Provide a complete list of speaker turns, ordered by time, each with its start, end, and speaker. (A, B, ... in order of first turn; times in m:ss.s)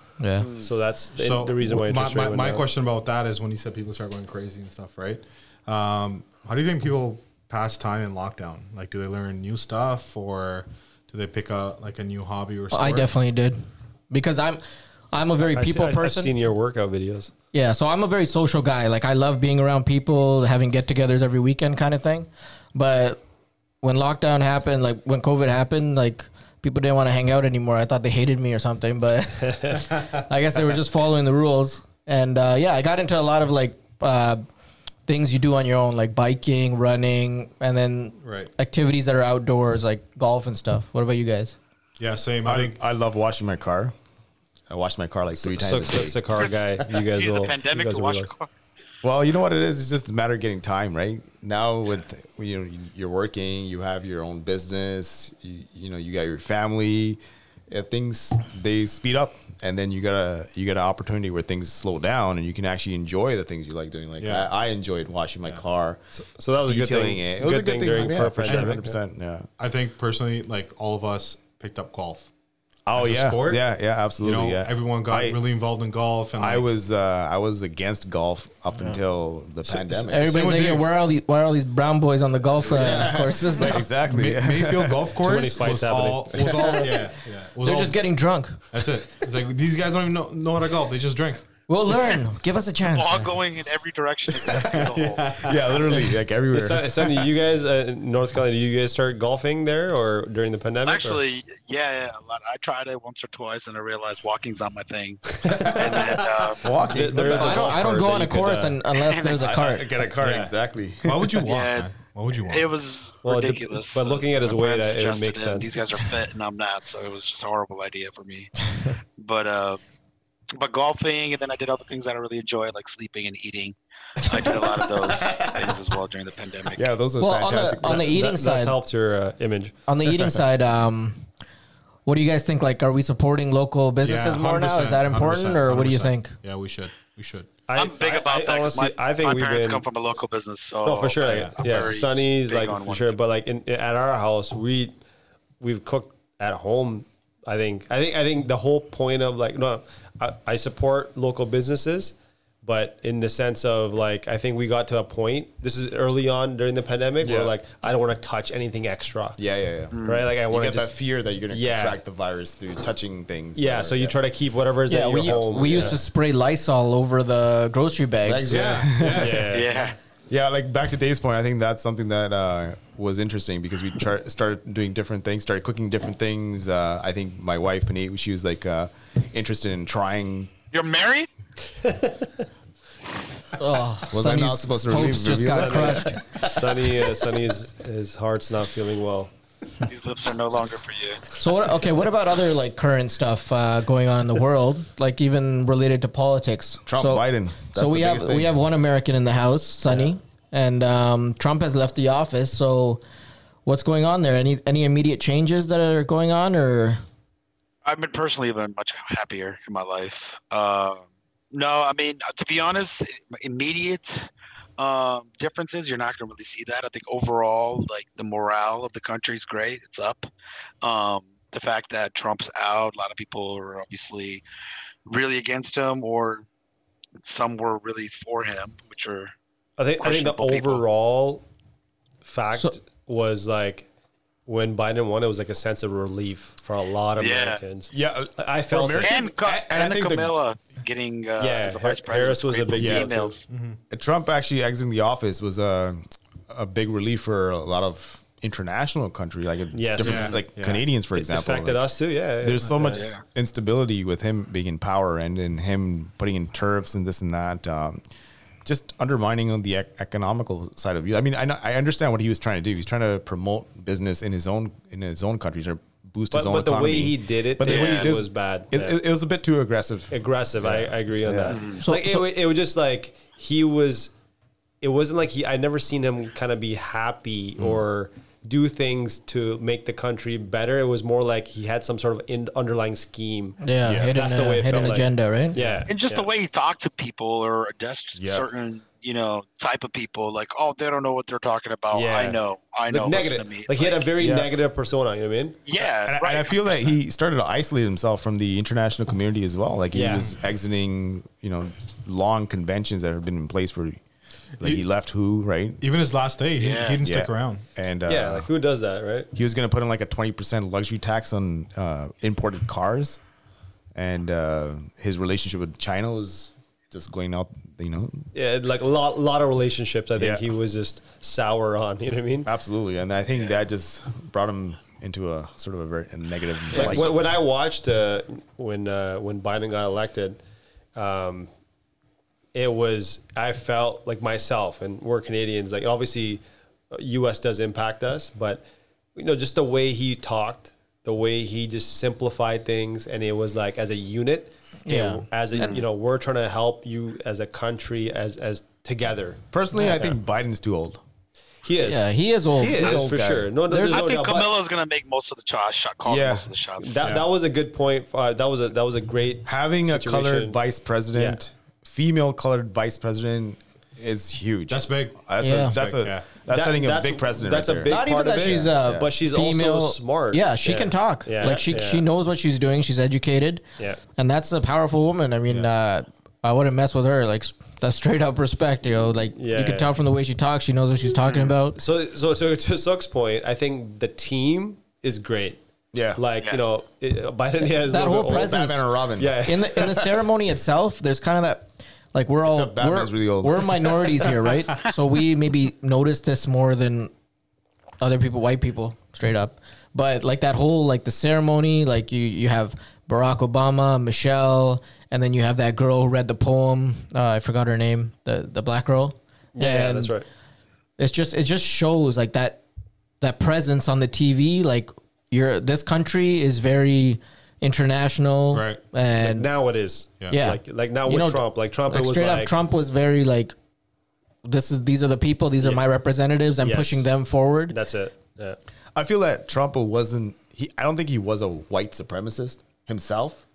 0:00.2-0:00.5 A
0:00.5-0:02.7 B
0:01.2-0:13.1 C
0:12.7-0:13.6 A
0:14.1-0:16.3 A
0:15.4-0:17.3 B
0:17.5-0:23.2 A
0:23.8-0:34.4 A
0:29.4-0:29.8 B
0:35.1-0:41.6 A
0:38.2-0:38.5 C
0:42.0-0:42.8 C
0:42.4-0:43.9 D
0:44.7-0:46.2 D
0:45.4-0:48.3 B
0:46.4-0:48.5 E
0:49.0-1:06.0 D
1:04.2-1:04.5 C
1:06.1-1:08.9 B
1:06.6-1:09.5 D
1:08.5-1:08.9 C
1:09.6-1:12.3 C
1:12.9-1:15.4 D
1:13.0-1:13.6 C
1:14.2-1:16.7 C
1:16.4-1:20.6 D
1:19.7-1:20.9 C
1:20.1-1:23.9 A
1:22.7-1:25.1 D
1:24.0-1:28.0 C
1:25.2-1:27.0 B
1:27.6-1:28.7 A
1:28.7-1:31.5 C
1:31.7-1:33.3 A
1:32.9-1:35.4 E
1:34.4-1:36.0 C
1:35.4-1:37.1 D
1:36.5-1:41.2 B
1:40.8-1:46.7 E
1:45.5-1:46.0 D
1:45.6-1:46.0 B
1:46.5-1:47.8 D
1:46.8-1:48.8 B
1:47.2-1:50.0 A
1:49.0-1:49.4 E
1:49.4-1:51.5 D
1:50.2-1:50.5 B
1:51.0-1:52.7 C
1:51.4-1:58.6 E
1:53.2-1:55.7 B
1:59.2-1:59.8 E
2:00.5-2:06.9 E
2:05.2-2:05.5 D
2:06.8-2:08.1 D
2:07.2-2:08.8 A
2:07.8-2:09.7 B
2:09.9-2:11.3 A
2:10.0-2:10.4 D
2:12.1-2:16.4 A
2:14.0-2:17.5 C
2:17.7-2:19.8 B
2:17.8-2:23.2 E
2:20.8-2:25.0 B
2:21.3-2:21.6 C
2:25.6-2:39.4 B
2:37.2-2:37.5 D
2:39.4-2:44.2 D
2:39.9-2:40.2 E
2:40.0-2:40.9 B
2:41.5-2:42.0 B
2:43.6-2:46.0 B
2:44.9-2:48.8 A
2:45.2-2:46.0 D
2:48.2-2:49.6 D
2:48.5-2:49.5 C
2:49.0-2:49.9 B
2:49.5-2:50.0 E
2:50.3-3:00.5 D
3:00.7-3:01.3 E
3:01.8-3:02.3 B
3:03.6-3:06.5 A
3:04.1-3:06.2 D
3:05.5-3:09.3 B
3:09.8-3:11.3 E
3:11.4-3:23.0 A
3:16.9-3:18.5 D
3:23.7-3:27.0 A
3:27.8-3:40.3 E
3:40.8-3:44.4 E
3:45.1-3:46.4 E
3:47.2-3:49.3 E
3:49.8-3:51.4 B
3:50.0-3:50.8 E
3:52.2-3:53.9 B
3:54.5-3:59.3 B
3:57.2-3:57.6 E
3:57.9-4:00.3 D
3:59.0-4:03.5 E
4:01.4-4:03.4 B
4:02.8-4:03.1 D
4:03.5-4:03.8 C
4:03.9-4:11.8 D
4:09.7-4:10.4 B
4:10.0-4:10.9 C
4:11.2-4:13.2 B
4:12.4-4:18.0 D
4:18.6-4:31.6 D
4:26.3-4:29.0 B
4:27.6-4:28.1 E
4:30.1-4:34.1 B
4:31.5-4:31.8 E
4:31.8-4:32.3 A
4:34.8-4:46.3 B
4:43.6-4:45.6 A
4:43.8-4:44.2 D
4:45.9-4:54.1 E
4:48.2-4:48.5 D
4:51.9-4:55.6 B
4:54.2-4:54.5 D
4:55.7-4:56.9 E
4:56.0-5:04.0 D
4:59.9-5:00.3 B
5:04.6-5:05.8 D
5:05.8-5:07.6 C
5:06.6-5:07.0 E
5:07.0-5:08.5 D
5:08.1-5:09.3 B
5:09.3-5:13.2 D
5:14.0-5:18.3 D
5:18.3-5:22.5 B
5:20.2-5:20.4 D
5:22.5-5:27.2 D
5:26.7-5:30.4 B
5:31.0-5:31.5 B
5:32.5-5:38.6 B
5:39.2-5:49.4 B
5:44.9-5:45.8 A
5:49.5-5:51.0 D
5:51.6-5:54.5 B
5:51.8-5:53.0 A
5:52.7-5:53.5 D
5:53.7-5:54.1 A
5:53.9-5:57.1 E
5:56.1-5:56.5 D
5:56.8-6:00.6 B
5:59.4-6:09.1 D
6:01.1-6:01.4 B
6:04.7-6:06.3 C
6:05.4-6:05.8 A
6:06.5-6:12.1 B
6:07.9-6:13.6 A
6:14.2-6:21.8 A
6:19.4-6:19.9 B
6:21.2-6:21.5 E
6:21.8-6:25.6 B
6:25.9-6:26.2 D
6:26.2-6:28.6 B
6:27.7-6:28.8 A
6:28.2-6:29.4 D
6:29.2-6:30.1 B
6:29.4-6:37.1 A
6:32.5-6:34.2 D
6:38.0-6:50.2 A
6:49.6-6:50.3 B
6:51.0-6:52.6 A
6:53.2-6:59.5 A
6:58.5-6:58.8 C
6:59.2-7:02.6 B
7:00.3-7:03.5 A
7:04.4-7:07.8 A
7:06.6-7:07.1 B
7:07.7-7:08.6 B
7:09.0-7:13.4 D